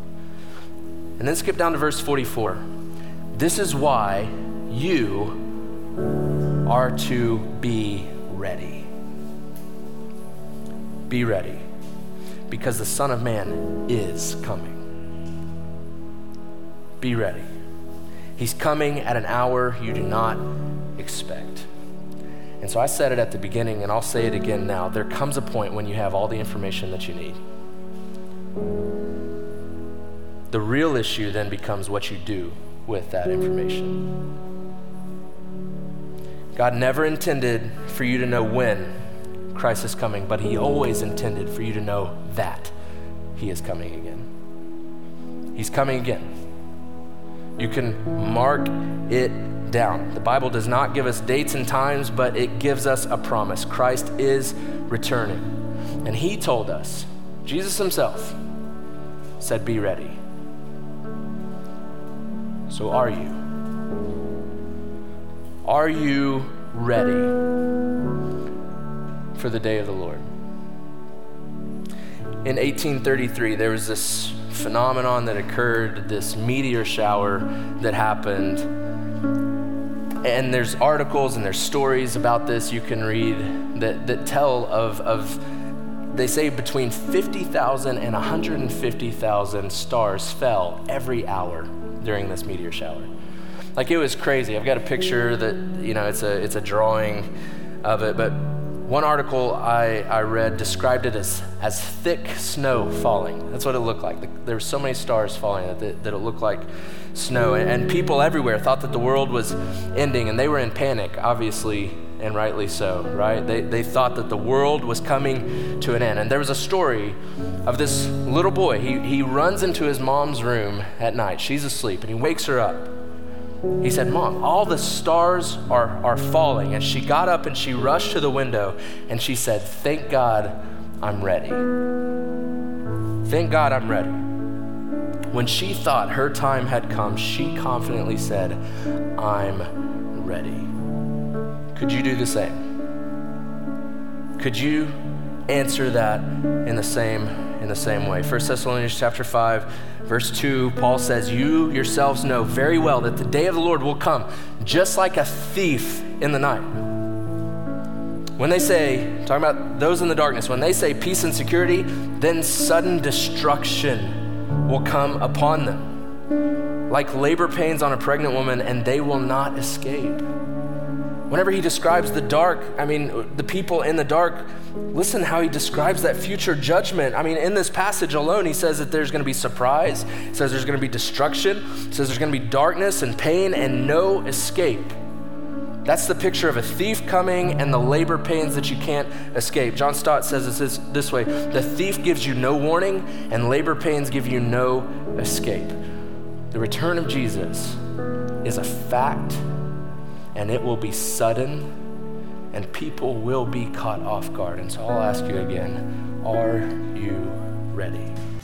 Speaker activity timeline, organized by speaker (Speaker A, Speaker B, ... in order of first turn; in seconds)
Speaker A: 1.2-2.6, 3.3-5.4, 6.6-8.9, 11.1-11.6, 12.5-14.8, 17.0-17.5, 18.4-21.7, 22.6-27.4, 30.5-34.1, 36.5-38.9, 39.5-42.7, 43.3-44.3, 45.5-46.3, 47.6-58.4, 59.4-60.2, 62.7-63.4, 65.6-67.4, 69.3-70.2, 72.4-78.7, 80.2-85.4, 86.1-93.1, 93.8-97.3, 97.8-122.9, 123.8-131.6, 133.2-134.2, 135.3-138.6, 139.2-140.7, 141.7-142.6, 144.4-156.9, 158.4-165.9, 166.9-170.2, 171.3-184.9, 185.8-195.8, 196.5-197.8, 198.4-199.4, 200.3-201.7, 202.5-208.1